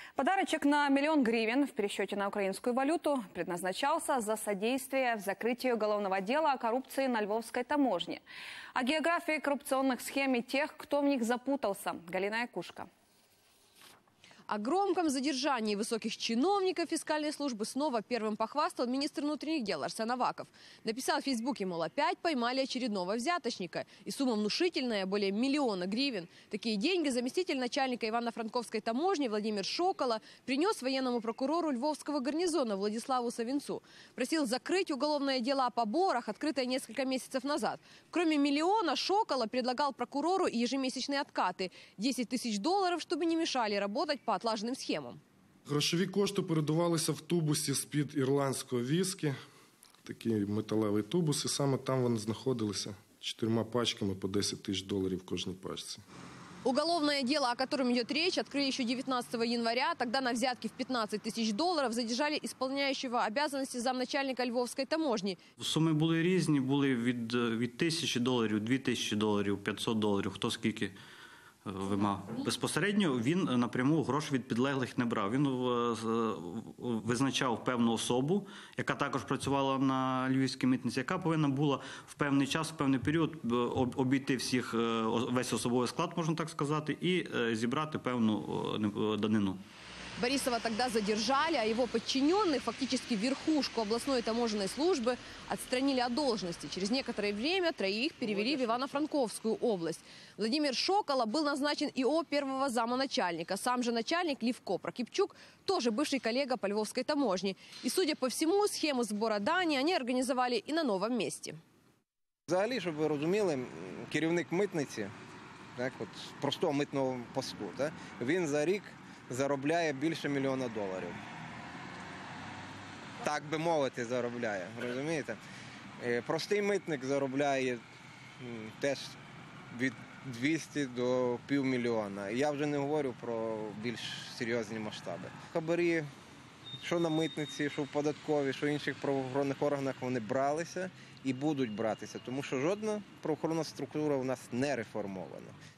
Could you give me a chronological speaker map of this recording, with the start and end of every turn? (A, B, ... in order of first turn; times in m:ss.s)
0:00.2-0:08.2 A
0:08.7-0:12.9 A
0:14.5-0:45.2 B
0:45.6-0:49.3 C
0:50.0-0:56.0 C
0:56.6-1:05.4 B
1:05.6-1:10.9 D
1:11.6-1:29.6 D
1:30.2-1:51.6 B
1:52.5-1:55.1 E
1:55.8-2:01.2 E
2:03.2-2:05.4 E
2:06.0-2:07.8 E
2:08.4-2:09.2 E
2:09.7-2:16.1 E
2:16.8-2:25.5 E